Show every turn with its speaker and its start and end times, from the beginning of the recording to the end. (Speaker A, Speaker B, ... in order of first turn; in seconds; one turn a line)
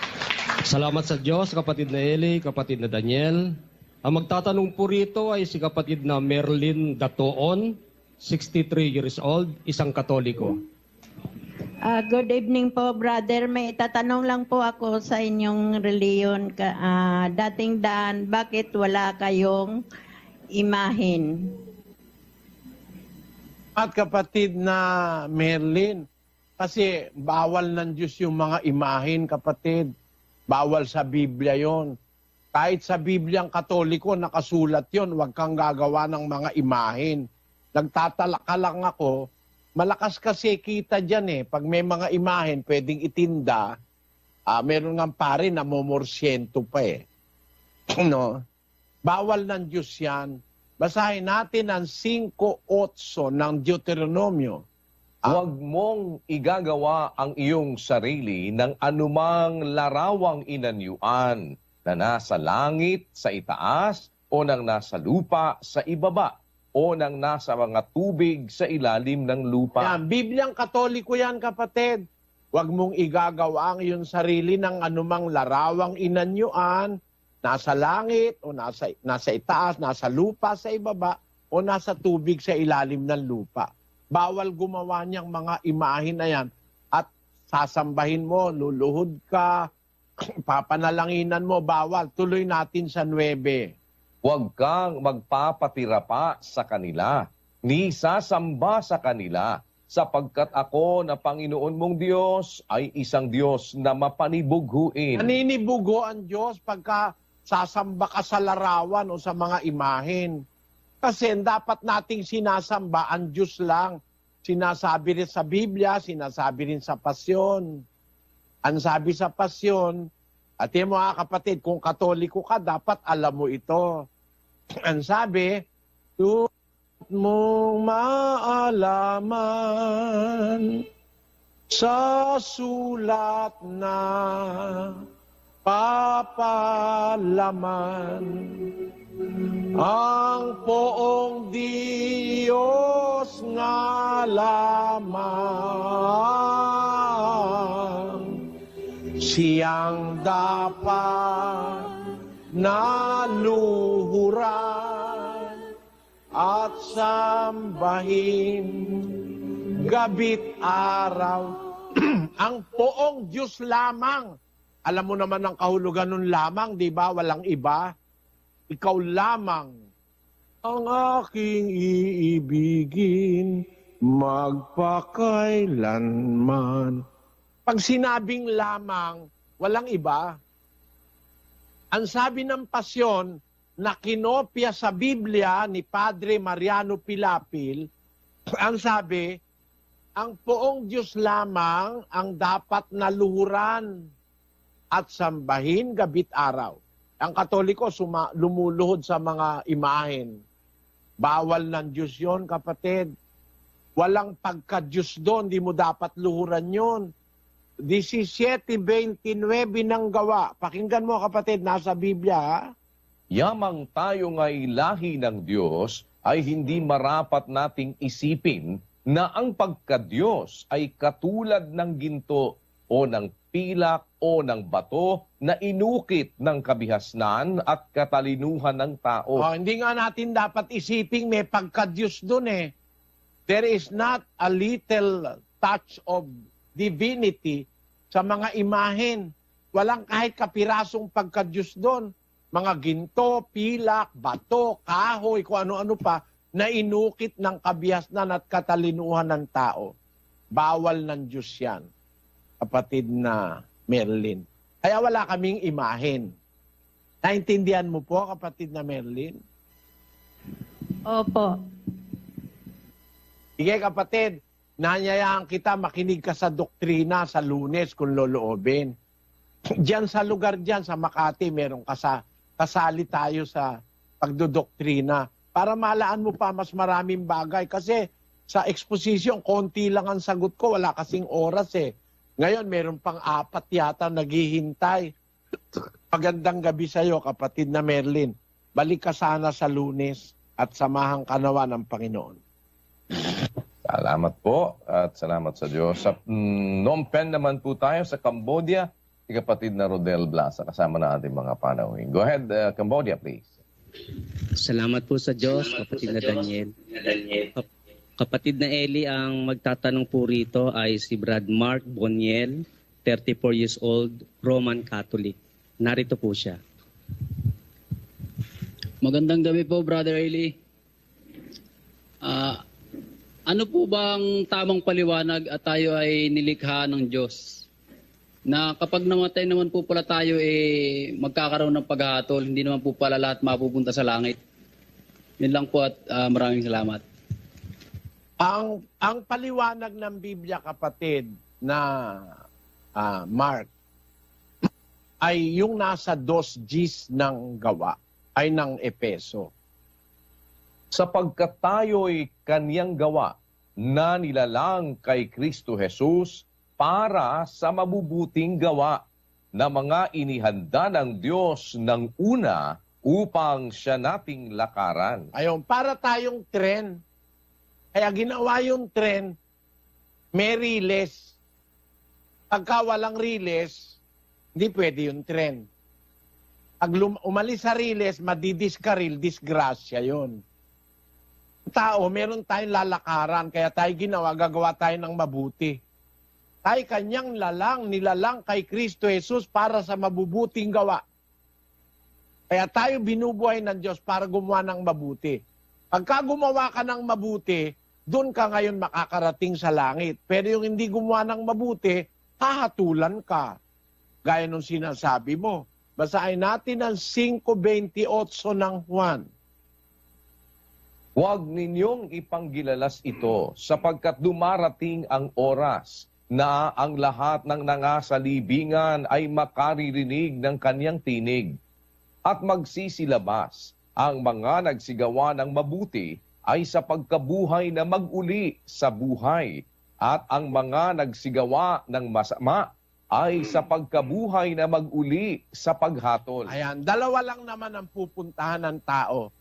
Speaker A: 0.7-10.6
Speaker B: 11.8-19.8
Speaker B: 20.5-21.5
Speaker C: 23.8-26.0
Speaker C: 26.6-29.9
Speaker C: 30.5-31.9
Speaker C: 32.5-37.2
Speaker C: 37.7-39.1
Speaker C: 39.8-43.7
Speaker C: 44.5-47.0
Speaker C: 48.0-48.4
Speaker C: 49.0-54.6
Speaker D: 55.3-70.0
Speaker C: 69.8-72.0
Speaker C: 72.5-76.9
Speaker C: 77.5-89.6
Speaker C: 90.5-93.7
Speaker D: 94.2-105.3
Speaker C: 105.2-110.4
Speaker C: 111.0-117.8
Speaker C: 118.7-120.0
Speaker C: 120.6-124.0
Speaker C: 124.9-125.5
Speaker C: 126.2-126.5
Speaker C: 127.1-130.8
Speaker C: 131.7-135.0
Speaker C: 135.7-138.7
Speaker C: 139.8-148.4
Speaker C: 149.2-151.9
Speaker C: 152.6-155.6
Speaker C: 156.3-159.3
Speaker C: 159.8-164.3
Speaker C: 164.9-167.9
Speaker C: 168.7-169.7
Speaker C: 170.6-177.0
Speaker C: 177.7-180.3
Speaker C: 181.9-187.8
Speaker C: 188.6-189.3
Speaker C: 190.2-193.9
Speaker C: 194.9-200.4
Speaker C: 201.2-203.1
Speaker C: 204.0-207.1
Speaker C: 207.9-212.6
Speaker D: 213.3-229.4
Speaker C: 229.4-232.7
Speaker C: 233.5-237.6
Speaker C: 238.1-249.9
Speaker C: 250.6-251.8
Speaker C: 252.6-256.3
Speaker C: 257.2-259.4
Speaker B: 261.1-261.5
Speaker C: 263.6-268.9
Speaker C: 269.8-273.7
Speaker C: 274.2-278.0
Speaker C: 278.5-281.9
Speaker C: 282.4-285.1
Speaker C: 286.1-292.4
Speaker D: 293.8-303.4
Speaker E: 304.6-307.6
Speaker E: 308.2-316.6
Speaker F: 319.0-320.5
Speaker F: 322.2-322.6
Speaker F: 323.5-327.6
Speaker F: 328.5-330.6
Speaker F: 331.2-334.4
Speaker F: 335.4-337.0
Speaker C: 338.4-342.3
Speaker C: 343.0-343.7
Speaker C: 345.2-349.5
Speaker D: 350.9-359.0
Speaker D: 359.5-365.3
Speaker C: 365.3-367.0
Speaker C: 367.9-369.3
Speaker C: 370.3-371.3
Speaker C: 372.5-373.8
Speaker C: 374.6-375.6
Speaker C: 376.8-380.4
Speaker C: 381.7-385.8
Speaker C: 386.6-391.0
Speaker C: 392.5-395.4
Speaker C: 395.9-403.5
Speaker C: 404.2-409.2
Speaker D: 411.1-421.6
Speaker D: 422.3-436.5
Speaker C: 436.5-439.2